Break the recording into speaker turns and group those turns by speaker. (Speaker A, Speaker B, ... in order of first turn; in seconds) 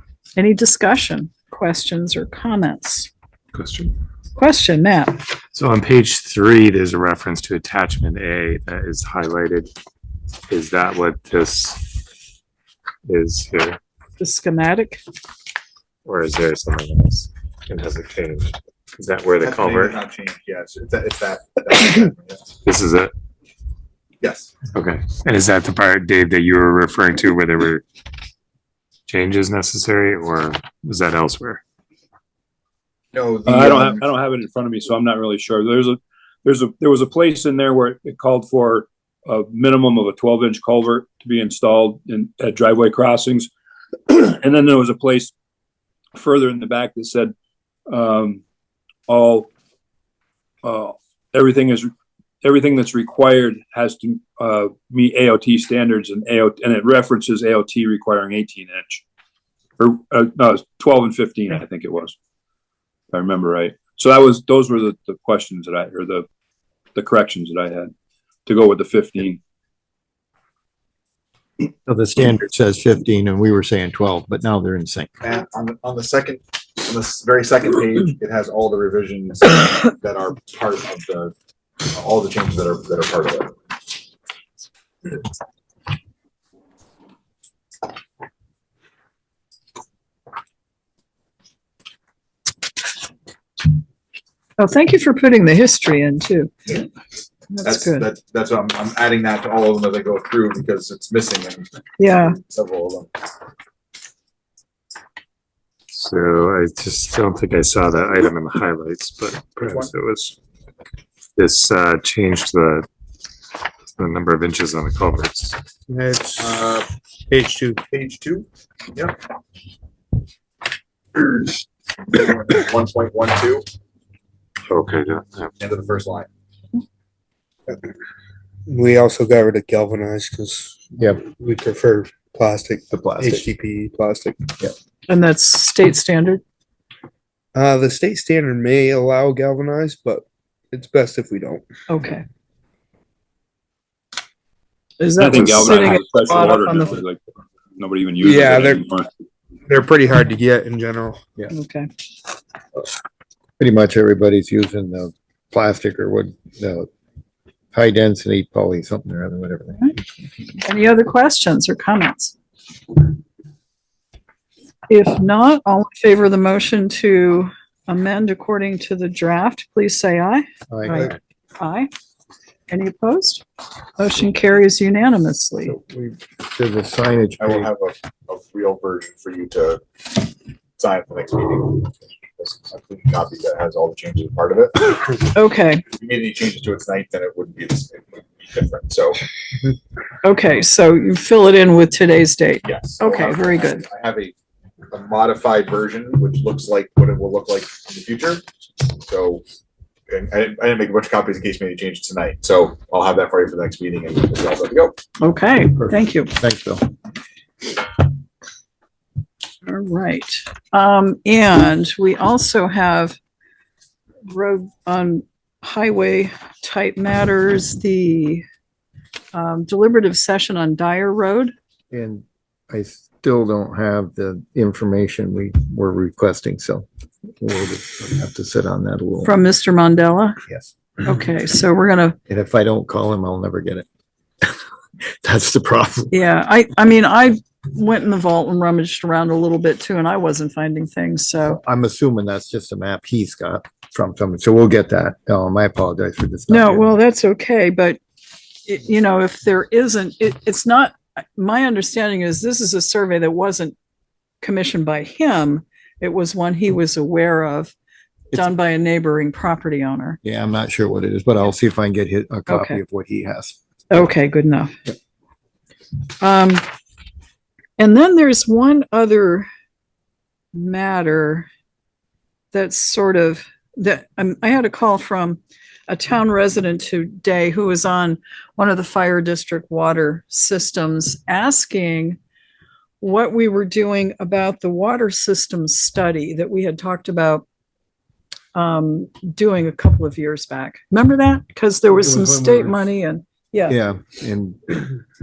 Speaker A: 0.4-3.1, 4.4-5.2, 14.2-15.0, 94.6-96.5, 97.5-98.1, 102.0-102.4, 135.1-136.4, 141.9-142.2, 145.0-147.0, 151.5-151.9, 160.6-162.4, 164.9-171.9, 172.7-173.4, 174.0-175.8, 185.3-185.8, 190.2-193.8, 205.2-206.3, 209.7-213.2, 214.3-218.4, 219.3-221.5, 229.2-230.4, 231.0-232.2, 236.1-241.6, 246.5-248.0, 248.7-253.8, 254.4-257.7, 258.3-260.2, 262.5-262.8, 263.9-264.8, 266.2-266.6, 267.8-269.5, 270.5-271.5, 272.5-282.2, 283.0-287.4, 288.6-293.8
Speaker B: 3.5-4.0, 5.5-9.7, 10.5-12.0, 13.1-13.8, 16.1-20.0, 22.6-23.1, 24.7-27.8, 29.1-31.6, 105.9-110.4, 111.4-112.9, 113.9-115.6, 124.7-125.5
Speaker C: 19.4-22.5, 24.2-24.5, 33.1-34.0, 75.2-81.3, 81.9-83.5, 97.6-103.1, 116.4-116.9, 117.9-119.2, 122.1-123.7, 125.6-126.3, 177.4-180.2, 180.8-185.3, 185.9-189.2, 192.7-194.3, 194.9-199.4, 200.1-205.0
Speaker D: 33.5-43.5, 44.1-45.3, 46.1-47.4, 47.9-48.4, 49.1-49.5, 50.6-51.9, 52.4-59.0, 59.8-62.2, 63.1-66.3, 67.0-67.9, 68.5-69.4, 145.2-147.2, 147.8-149.1
Speaker E: 71.8-75.2, 132.9-133.5, 153.6-156.9, 157.7-159.8, 170.7-171.1, 175.6-177.7, 205.8-206.9, 221.9-226.9, 227.4-229.4, 232.3-233.9, 235.1-236.2, 241.5-247.0, 260.2-264.0, 292.0-292.8, 293.7-294.9
Speaker F: 115.9-116.7, 117.3-117.8, 128.7-134.5, 137.5-141.7, 148.2-148.8, 149.7-151.2